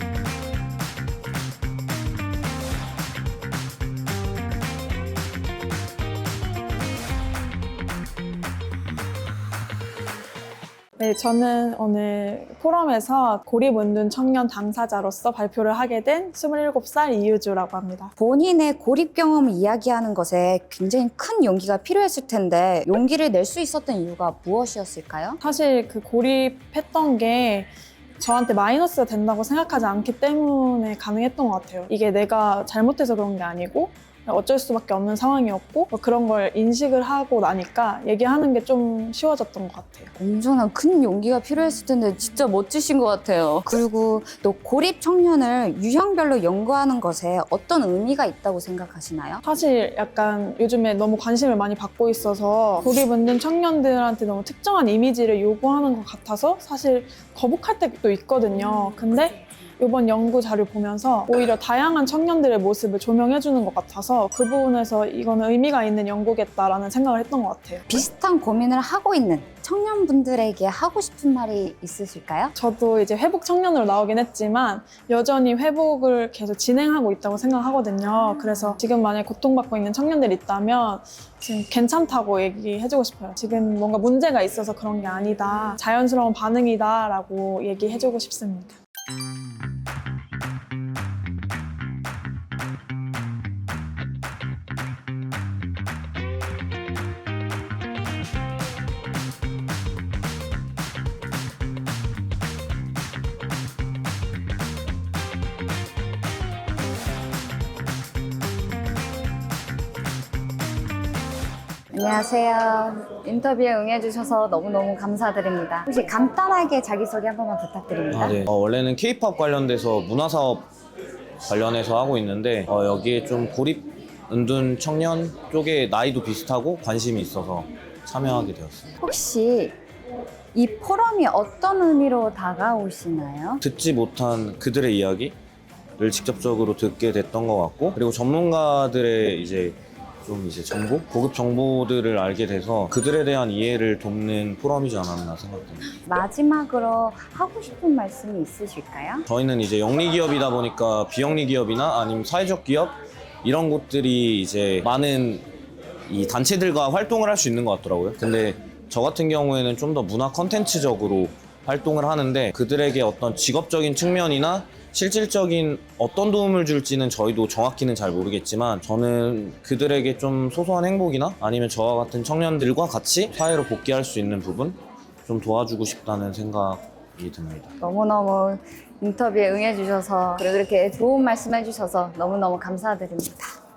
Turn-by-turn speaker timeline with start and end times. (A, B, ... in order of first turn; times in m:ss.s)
0:11.0-0:18.1 A
0:18.2-0:25.4 B
0:25.4-0:40.1 A
0:40.2-0:49.4 B
0:49.4-1:08.0 A
1:07.9-1:12.5 B
1:12.6-1:28.8 A
1:51.9-1:58.4 B
1:58.1-2:00.7 C
2:01.4-2:08.9 C
2:09.0-2:09.8 B
2:10.5-2:13.6 B
2:13.6-2:15.4 C
2:16.0-2:25.8 C
2:26.0-2:29.2 B
2:29.3-2:35.5 C
2:36.1-2:57.7 C
2:57.8-3:03.5 B